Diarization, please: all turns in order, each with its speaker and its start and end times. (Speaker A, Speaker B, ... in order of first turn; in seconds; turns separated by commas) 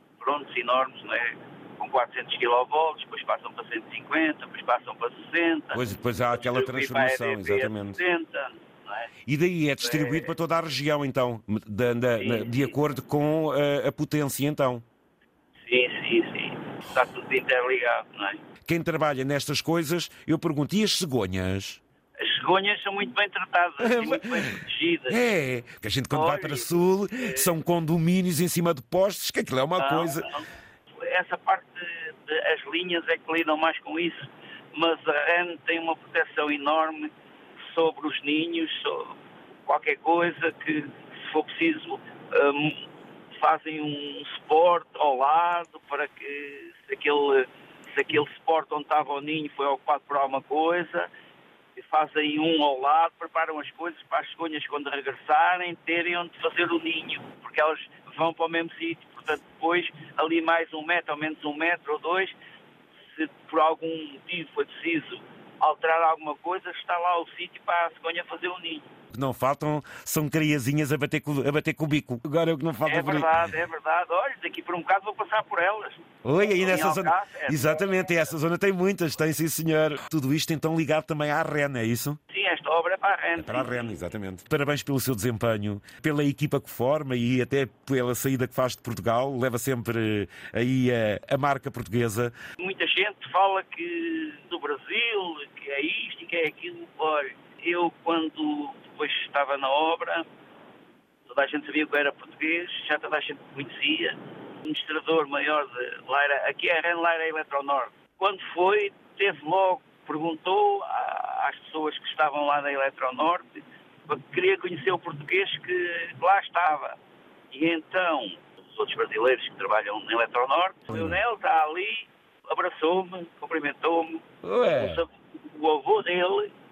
Speaker A: 0.2-9.1, Speaker B: 5.7-8.0, Speaker B: 9.3-14.8, Speaker A: 9.8-10.3, Speaker A: 12.2-12.8, Speaker A: 15.6-18.4, Speaker B: 18.7-21.8, Speaker A: 22.2-25.2, Speaker B: 23.8-24.6, Speaker B: 25.1-30.3, Speaker A: 26.1-27.6, Speaker A: 29.8-30.5, Speaker A: 31.0-51.1, Speaker A: 51.8-62.4, Speaker A: 63.0-68.9, Speaker B: 69.1-73.5, Speaker A: 72.8-78.1, Speaker B: 76.2-82.2, Speaker A: 82.3-83.9, Speaker B: 83.4-92.3, Speaker A: 92.6-100.3, Speaker A: 101.3-117.0, Speaker A: 117.5-126.5, Speaker B: 120.9-121.2, Speaker B: 124.4-125.0